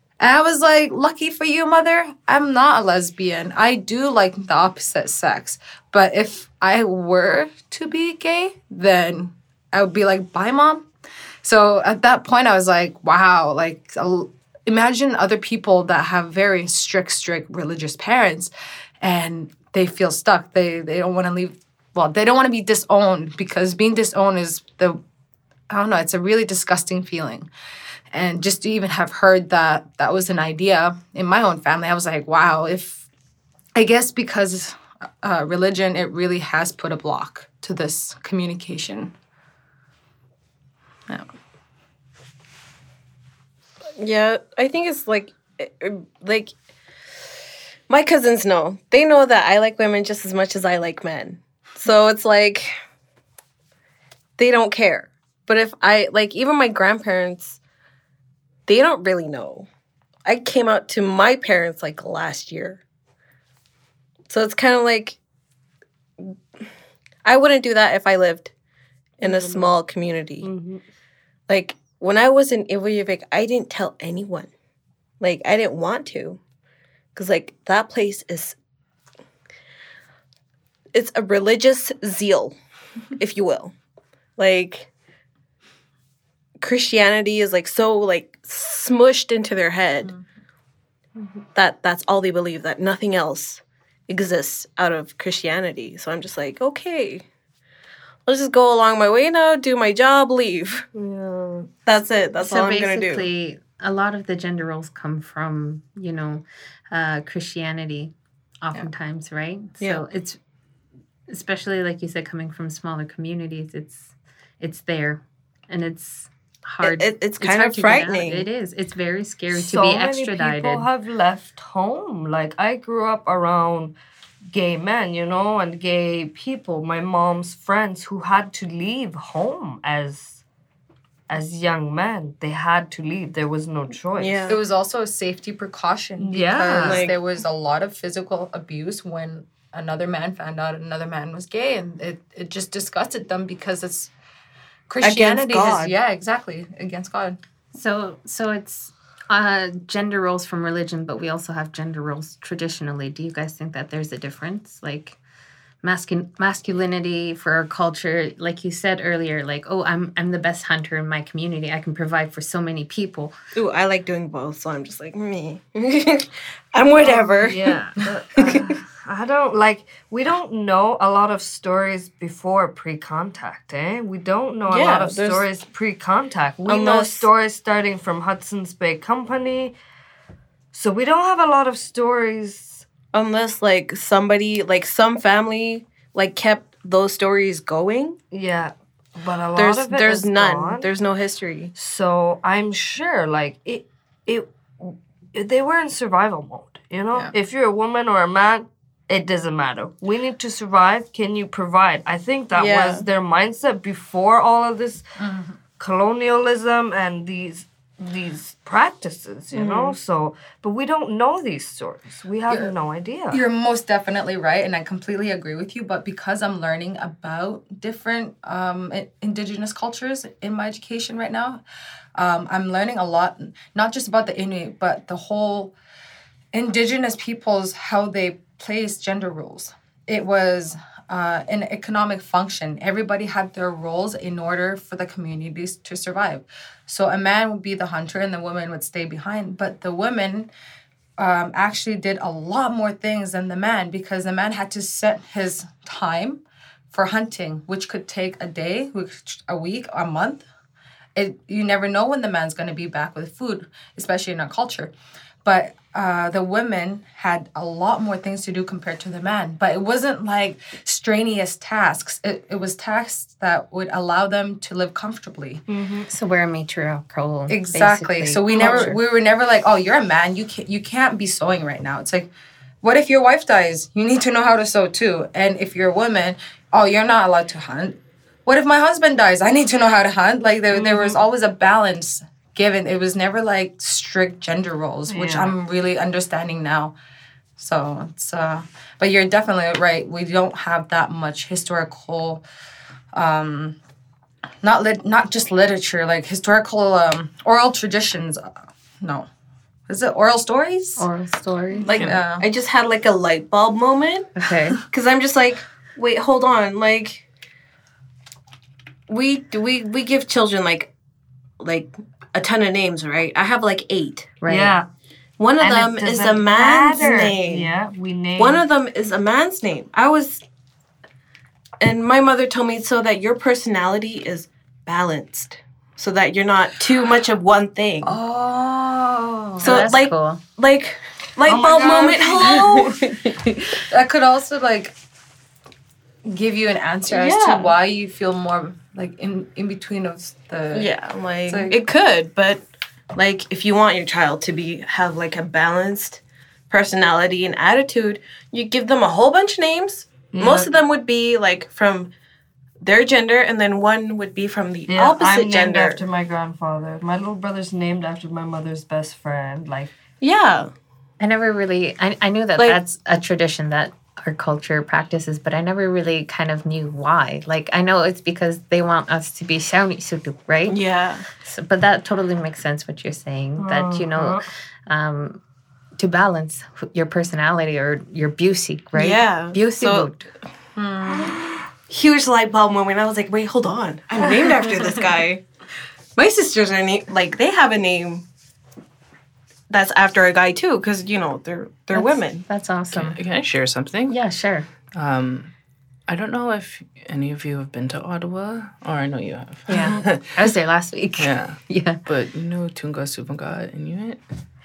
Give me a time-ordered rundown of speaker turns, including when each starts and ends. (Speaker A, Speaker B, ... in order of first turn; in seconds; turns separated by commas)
Speaker A: 0.2-10.9, Speaker A: 11.4-25.0, Speaker A: 25.7-27.5, Speaker A: 28.1-33.1, Speaker A: 33.7-39.1, Speaker B: 44.0-46.5, Speaker B: 47.9-52.8, Speaker B: 54.4-57.6, Speaker B: 58.7-59.7, Speaker B: 60.2-62.8, Speaker B: 64.3-65.2, Speaker B: 67.2-68.5, Speaker B: 69.2-70.5, Speaker C: 69.2-69.7, Speaker C: 70.4-70.8, Speaker B: 71.5-74.5, Speaker B: 75.2-76.4, Speaker B: 77.1-78.6, Speaker B: 80.9-82.6, Speaker B: 83.2-83.7, Speaker B: 84.4-84.9, Speaker B: 86.6-90.1, Speaker B: 91.5-97.2, Speaker B: 98.3-100.8, Speaker C: 100.9-101.7, Speaker B: 101.9-103.3, Speaker D: 102.4-110.4, Speaker D: 111.3-120.9, Speaker B: 116.8-118.5, Speaker C: 119.5-123.9, Speaker C: 124.5-130.4, Speaker C: 131.3-134.5, Speaker B: 134.2-134.6, Speaker A: 134.5-144.1, Speaker C: 136.2-137.1, Speaker B: 136.8-137.2, Speaker A: 144.9-147.4, Speaker B: 145.0-145.9, Speaker D: 147.7-155.2, Speaker D: 155.8-163.3, Speaker B: 163.6-167.7, Speaker C: 167.4-179.8, Speaker B: 174.7-175.4, Speaker B: 176.7-177.3, Speaker C: 180.7-182.9, Speaker B: 183.1-188.2, Speaker C: 188.3-190.9, Speaker B: 189.6-191.7, Speaker C: 191.8-205.0, Speaker B: 202.5-203.1, Speaker A: 205.2-205.6, Speaker C: 205.8-213.4, Speaker B: 209.5-209.9, Speaker A: 213.3-221.6, Speaker A: 222.2-225.7, Speaker A: 226.5-240.5, Speaker A: 241.2-250.4, Speaker A: 251.2-254.9, Speaker A: 255.4-265.6, Speaker C: 265.7-266.1, Speaker D: 266.1-269.0, Speaker A: 267.5-272.3, Speaker C: 268.5-268.9, Speaker A: 272.8-286.9, Speaker C: 280.7-281.2, Speaker C: 285.1-285.6, Speaker A: 287.6-292.4, Speaker A: 293.1-293.8, Speaker A: 294.6-298.5, Speaker A: 299.0-299.3, Speaker A: 299.9-301.1, Speaker D: 301.0-301.9, Speaker A: 301.8-302.4, Speaker B: 301.8-304.3, Speaker D: 304.4-304.8, Speaker B: 304.9-307.2, Speaker B: 309.1-310.9, Speaker B: 311.6-314.4, Speaker D: 314.4-314.8, Speaker C: 314.5-314.9, Speaker B: 315.4-317.7, Speaker C: 315.6-318.6, Speaker B: 318.4-320.4, Speaker B: 321.8-328.2, Speaker A: 328.0-329.9, Speaker D: 329.6-330.4, Speaker B: 329.6-333.1, Speaker A: 331.4-333.0, Speaker C: 331.5-332.0, Speaker A: 333.9-334.9, Speaker A: 336.2-340.9, Speaker B: 337.1-337.8, Speaker B: 340.7-342.6, Speaker A: 341.4-341.8, Speaker B: 343.1-352.1, Speaker C: 350.3-350.7, Speaker B: 352.8-356.0, Speaker C: 354.9-359.9, Speaker B: 360.2-360.7, Speaker D: 361.2-370.8, Speaker B: 370.7-371.2, Speaker D: 371.4-375.4, Speaker C: 373.6-374.4, Speaker D: 376.0-380.3, Speaker B: 378.9-380.1, Speaker A: 380.8-381.4, Speaker B: 381.9-385.4, Speaker B: 386.2-388.2, Speaker B: 389.7-392.4, Speaker D: 391.9-393.2, Speaker E: 392.9-394.2, Speaker D: 394.1-394.7, Speaker E: 394.9-395.5, Speaker E: 396.1-400.1, Speaker D: 399.7-402.0, Speaker E: 401.2-404.2